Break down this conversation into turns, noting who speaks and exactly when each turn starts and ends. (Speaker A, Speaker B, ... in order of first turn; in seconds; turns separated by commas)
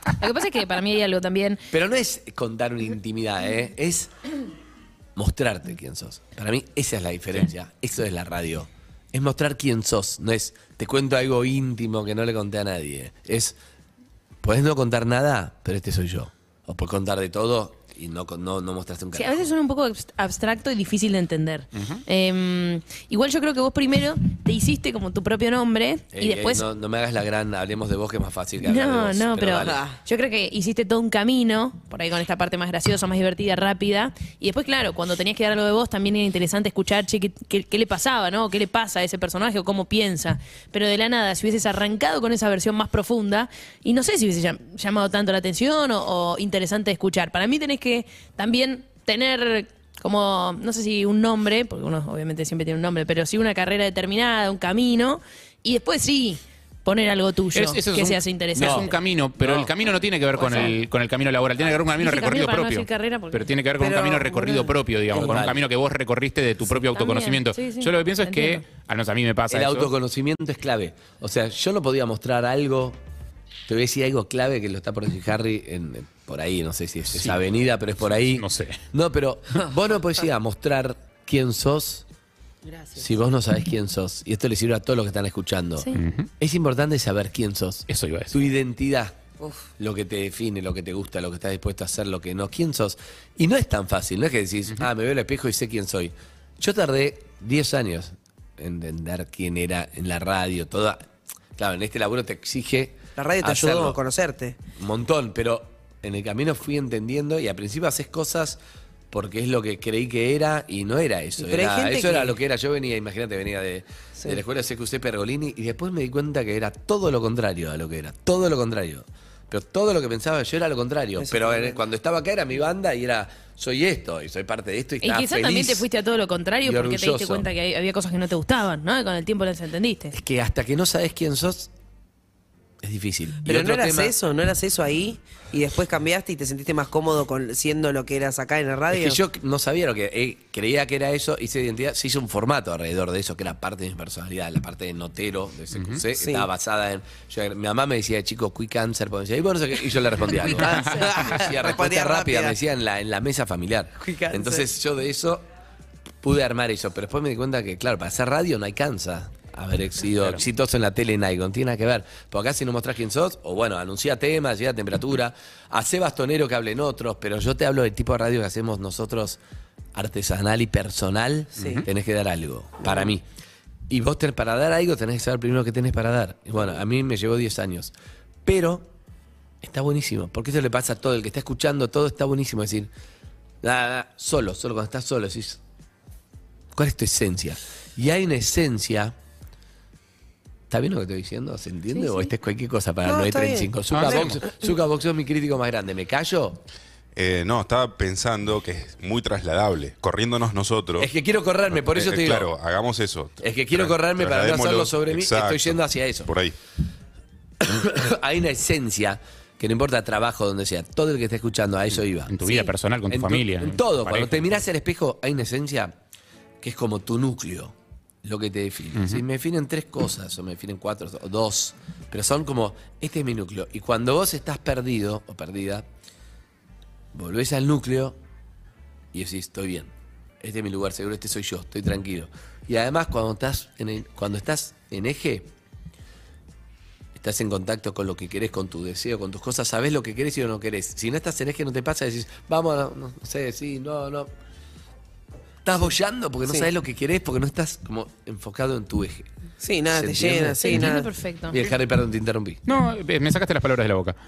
Speaker A: 0.2-1.6, Speaker B: 1.7-4.1, Speaker B: 5.2-13.6, Speaker B: 14.4-19.5, Speaker A: 19.1-26.6, Speaker C: 21.8-22.0, Speaker B: 26.1-29.8, Speaker A: 28.6-59.0, Speaker D: 29.6-30.0, Speaker C: 57.5-69.9, Speaker B: 58.5-59.7, Speaker A: 60.4-60.7, Speaker A: 62.0-63.4, Speaker D: 63.8-64.7, Speaker B: 65.1-65.6, Speaker A: 66.9-68.6, Speaker B: 69.5-73.0, Speaker B: 73.7-82.0, Speaker C: 78.1-78.8, Speaker D: 82.6-83.1, Speaker B: 83.0-89.2, Speaker C: 85.9-86.3, Speaker C: 87.9-88.5, Speaker D: 89.4-89.7, Speaker B: 89.8-104.0, Speaker D: 103.2-104.6, Speaker B: 104.8-108.6, Speaker B: 109.1-125.9, Speaker D: 111.4-112.3, Speaker D: 121.2-121.8, Speaker A: 125.0-130.1, Speaker B: 126.6-127.5, Speaker B: 130.1-131.7, Speaker B: 132.8-134.1, Speaker D: 133.4-139.2, Speaker B: 138.9-155.4, Speaker C: 145.7-146.0, Speaker D: 146.2-146.5, Speaker D: 150.4-152.6, Speaker C: 150.6-151.1, Speaker D: 154.0-154.7, Speaker B: 156.2-169.4, Speaker B: 169.9-173.2, Speaker D: 171.6-171.8, Speaker B: 173.9-177.9, Speaker B: 178.4-178.9, Speaker B: 179.6-182.9, Speaker B: 183.6-185.6, Speaker B: 186.7-189.1, Speaker B: 190.7-196.6, Speaker A: 191.9-192.3, Speaker D: 193.0-194.7, Speaker C: 193.9-194.4, Speaker E: 197.1-201.1, Speaker B: 201.0-202.5, Speaker E: 201.8-206.5, Speaker B: 203.4-206.3, Speaker B: 207.6-212.4, Speaker C: 212.3-214.6, Speaker B: 213.1-215.9, Speaker B: 216.6-225.9, Speaker C: 218.9-219.2, Speaker B: 227.1-228.2, Speaker B: 229.1-235.5, Speaker B: 237.1-244.3, Speaker B: 245.6-249.3, Speaker D: 249.6-251.1, Speaker B: 249.9-251.0, Speaker A: 250.6-251.6, Speaker B: 251.5-252.6, Speaker C: 252.7-254.2